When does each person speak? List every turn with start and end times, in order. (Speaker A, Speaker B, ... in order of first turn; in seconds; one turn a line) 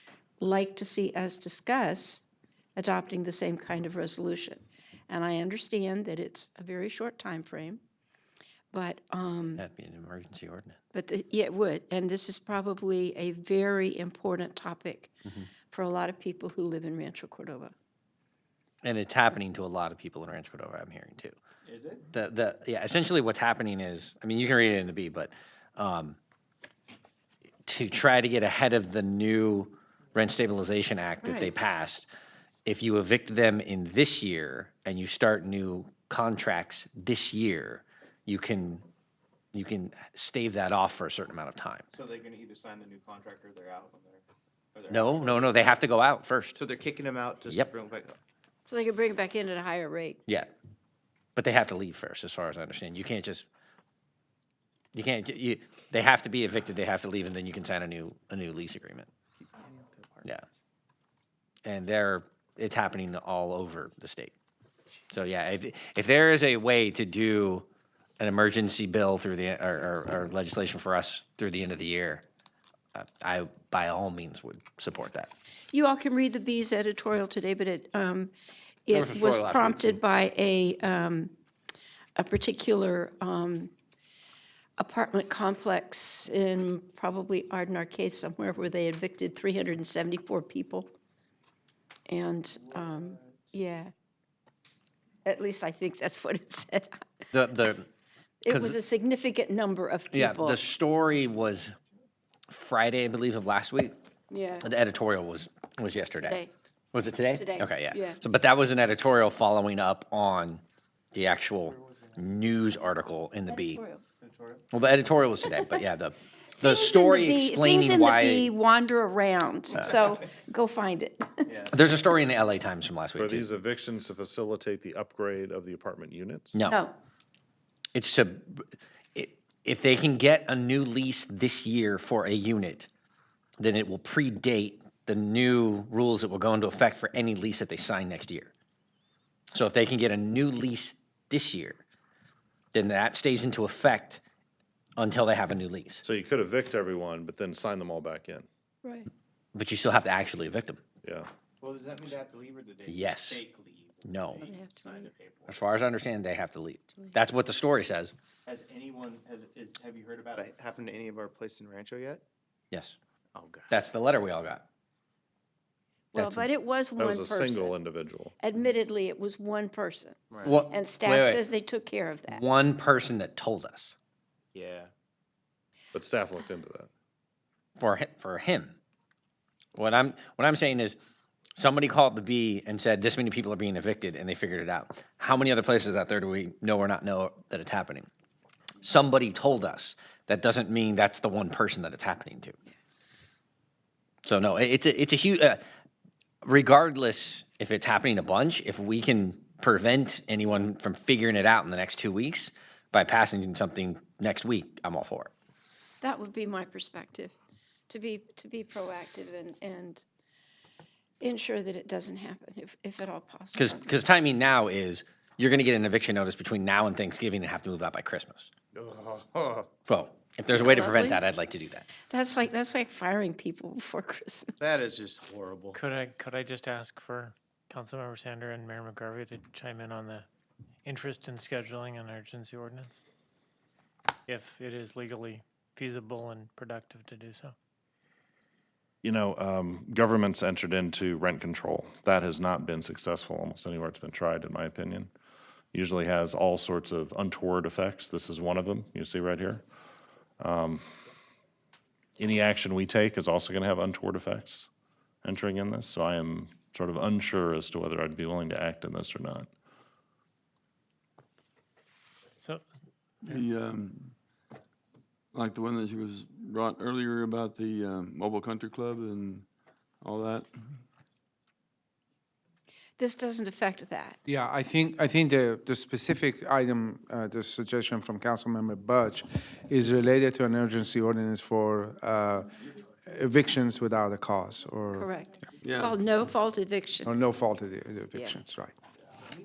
Speaker A: 0.4-2.2
Speaker A: 2.8-7.8
Speaker A: 8.7-9.6
Speaker B: 9.6-10.8
Speaker A: 10.9-15.1
Speaker A: 15.7-17.7
Speaker B: 18.8-21.4
Speaker C: 21.7-22.0
Speaker B: 22.1-26.2
Speaker B: 27.7-32.1
Speaker A: 31.2-31.5
Speaker B: 32.6-38.9
Speaker B: 39.5-41.9
Speaker C: 42.0-44.2
Speaker C: 44.8-45.1
Speaker B: 44.9-46.6
Speaker C: 46.8-48.2
Speaker A: 48.7-50.2
Speaker B: 51.4-53.5
Speaker B: 54.9-59.1
Speaker C: 59.5-60.2
Speaker B: 61.6-64.3
Speaker B: 65.1-67.7
Speaker B: 68.2-72.2
Speaker B: 73.0-75.3
Speaker A: 75.7-78.3
Speaker A: 78.9-81.3
Speaker B: 78.9-80.0
Speaker A: 82.2-83.7
Speaker A: 84.8-90.9
Speaker A: 92.1-93.9
Speaker A: 95.2-97.0
Speaker B: 97.3-97.9
Speaker A: 98.4-100.6
Speaker B: 98.5-98.8
Speaker B: 100.1-101.7
Speaker B: 102.5-104.0
Speaker A: 104.3-104.7
Speaker B: 104.6-106.4
Speaker A: 106.2-106.5
Speaker B: 106.9-110.6
Speaker A: 107.3-108.2
Speaker B: 111.1-113.8
Speaker A: 113.5-114.0
Speaker C: 114.2-114.6
Speaker B: 114.7-118.5
Speaker A: 116.6-121.5
Speaker B: 121.7-123.5
Speaker D: 123.2-126.6
Speaker B: 126.5-126.8
Speaker A: 126.7-127.0
Speaker B: 127.9-132.9
Speaker B: 133.6-138.5
Speaker B: 139.5-141.8
Speaker B: 142.7-144.2
Speaker B: 145.0-146.0
Speaker D: 146.0-148.5
Speaker A: 148.8-149.1
Speaker B: 149.5-150.8
Speaker D: 151.0-151.3
Speaker C: 151.6-155.5
Speaker B: 152.9-153.4
Speaker B: 154.0-154.5
Speaker A: 154.4-155.1
Speaker B: 155.5-158.1
Speaker C: 158.5-162.2
Speaker B: 162.7-163.0
Speaker C: 163.3-163.7
Speaker B: 163.7-164.6
Speaker A: 166.1-167.8
Speaker B: 166.2-166.5
Speaker D: 167.0-168.3
Speaker A: 168.4-172.4
Speaker B: 170.4-171.4
Speaker B: 172.3-173.9
Speaker C: 174.6-174.9
Speaker D: 175.9-176.9
Speaker B: 177.8-178.8
Speaker B: 179.8-181.0
Speaker B: 181.6-188.1
Speaker B: 188.8-192.6
Speaker B: 194.2-195.6
Speaker B: 196.4-205.3
Speaker A: 206.0-207.3
Speaker A: 207.9-210.0
Speaker A: 211.2-213.9
Speaker B: 213.6-218.5
Speaker C: 218.8-219.7
Speaker B: 219.9-221.9
Speaker A: 220.5-221.2
Speaker A: 222.1-224.8
Speaker C: 224.6-225.8
Speaker E: 225.7-230.3
Speaker E: 230.8-233.0
Speaker E: 234.3-237.5
Speaker D: 239.0-245.1
Speaker D: 245.7-249.6
Speaker D: 250.4-250.8
Speaker D: 252.2-254.7
Speaker D: 255.2-259.5
Speaker F: 263.2-264.2
Speaker F: 265.3-269.5
Speaker F: 270.0-270.8
Speaker A: 273.0-274.2
Speaker G: 274.3-282.5
Speaker G: 283.1-285.1
Speaker A: 284.9-287.1
Speaker F: 285.6-286.0
Speaker G: 287.1-288.7